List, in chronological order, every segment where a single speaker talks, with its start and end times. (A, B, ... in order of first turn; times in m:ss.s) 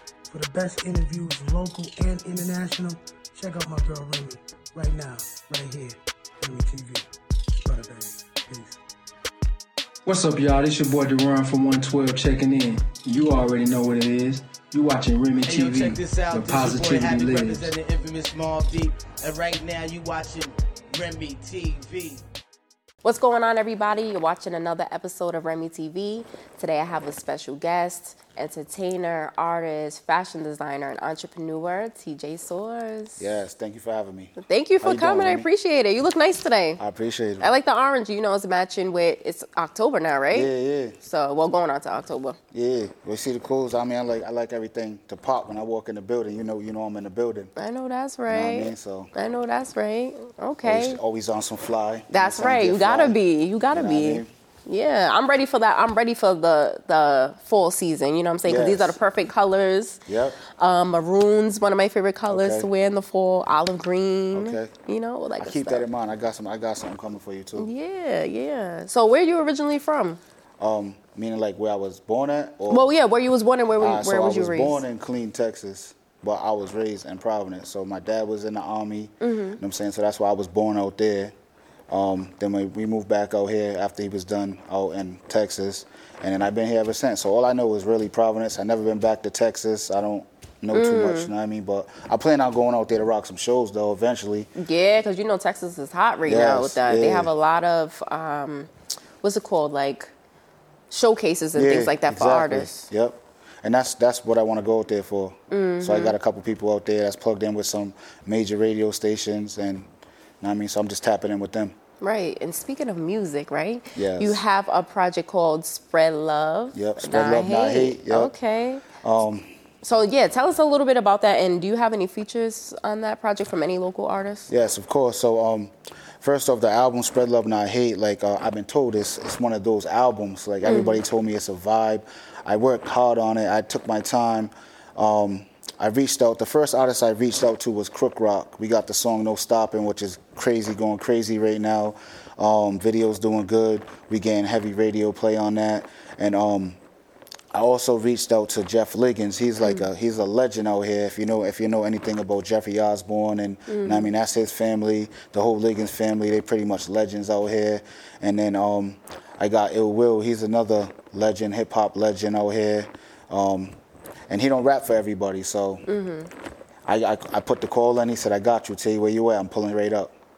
0:00.3-0:07.1 A
0:07.6-0:08.8 A
0:10.0-0:17.7 B
0:15.4-0:22.2 C
0:23.0-0:33.3 D
0:33.2-0:35.5 E
0:34.4-0:36.8 D
0:36.8-0:37.5 E
0:37.4-0:42.4 D
0:40.3-0:40.9 E
0:42.5-0:47.5 E
0:47.6-0:51.0 D
0:48.3-0:49.1 E
0:50.6-0:53.2 E
0:52.1-1:05.9 D
0:53.7-0:54.3 E
0:58.4-0:59.0 E
1:00.1-1:00.4 E
1:02.3-1:02.7 E
1:04.3-1:04.7 E
1:05.4-1:07.7 E
1:07.6-1:10.2 D
1:10.6-1:12.9 E
1:12.7-1:14.8 D
1:13.8-1:21.3 E
1:19.2-1:19.6 D
1:21.9-1:34.5 E
1:30.7-1:31.3 D
1:34.6-1:38.7 D
1:36.3-1:37.3 E
1:39.2-1:40.1 D
1:40.9-1:42.9 D
1:41.5-1:49.9 E
1:45.5-1:46.2 D
1:50.4-1:51.7 E
1:52.0-1:58.8 D
1:54.0-1:54.4 E
1:56.7-1:58.3 E
1:59.0-1:59.4 E
1:59.8-2:04.5 D
2:04.5-2:05.7 E
2:06.2-2:26.8 E
2:10.6-2:11.0 D
2:27.5-2:43.8 E
2:29.6-2:29.9 D
2:33.7-2:34.1 D
2:44.3-2:45.8 E
2:45.9-2:46.3 D
2:46.8-2:50.1 E